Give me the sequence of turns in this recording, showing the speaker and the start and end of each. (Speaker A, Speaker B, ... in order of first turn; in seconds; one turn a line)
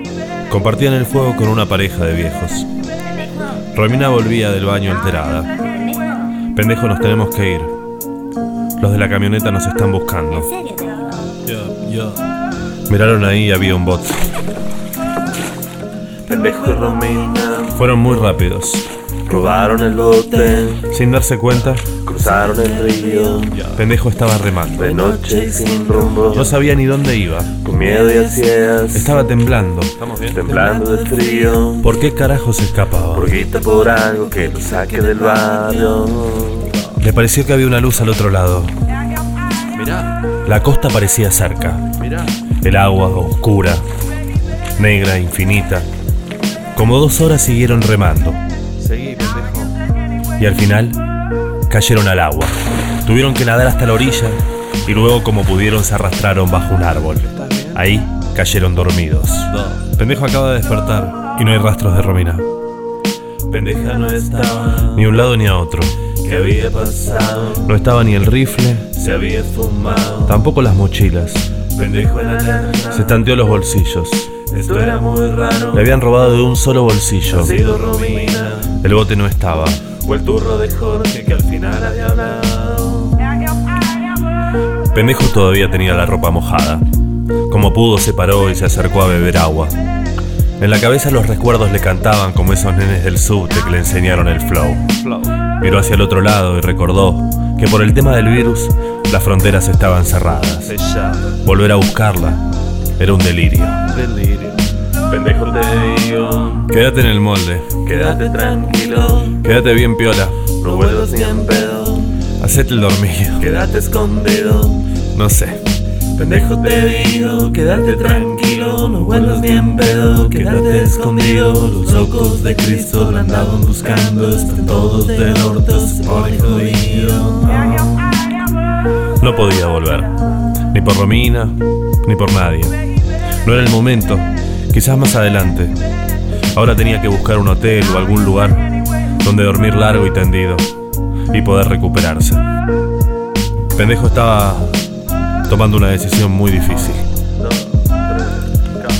Speaker A: 0.5-2.7
Speaker A: 3.7-5.5
Speaker A: 6.5-7.8
Speaker A: 8.8-10.8
Speaker A: 11.4-12.2
Speaker A: 12.9-14.4
Speaker B: 16.3-17.8
Speaker A: 17.7-18.9
Speaker B: 19.3-20.9
Speaker A: 20.7-27.9
Speaker B: 22.1-23.7
Speaker B: 24.8-26.5
Speaker B: 27.6-29.2
Speaker A: 28.8-36.0
Speaker B: 30.3-32.0
Speaker B: 33.2-36.9
Speaker A: 36.9-38.7
Speaker A: 39.9-43.9
Speaker A: 44.8-45.9
Speaker A: 46.8-48.4
Speaker B: 48.8-49.6
Speaker A: 50.4-51.0
Speaker A: 51.7-62.5
Speaker B: 63.5-65.0
Speaker A: 64.8-66.1
Speaker B: 66.2-67.7
Speaker A: 67.6-69.1
Speaker B: 69.0-70.3
Speaker A: 70.2-71.5
Speaker B: 71.8-73.2
Speaker A: 72.9-74.4
Speaker B: 74.5-75.9
Speaker A: 75.7-77.7
Speaker B: 77.3-78.7
Speaker A: 78.5-80.0
Speaker B: 80.0-83.4
Speaker A: 84.9-86.9
Speaker A: 87.5-89.8
Speaker A: 90.6-95.0
Speaker A: 95.6-102.5
Speaker B: 100.8-101.2
Speaker A: 103.0-104.0
Speaker B: 104.0-104.6
Speaker B: 105.1-106.7
Speaker A: 106.7-108.0
Speaker B: 107.8-109.4
Speaker A: 109.2-110.6
Speaker B: 110.6-112.3
Speaker A: 112.3-113.5
Speaker B: 113.4-114.9
Speaker A: 115.1-115.7
Speaker B: 116.2-128.2
Speaker A: 129.2-130.1
Speaker A: 130.7-132.8
Speaker A: 133.4-135.8
Speaker A: 136.5-138.7
Speaker A: 139.2-140.7
Speaker A: 141.3-142.4
Speaker A: 143.8-144.8
Speaker A: 145.5-147.1
Speaker B: 147.7-148.8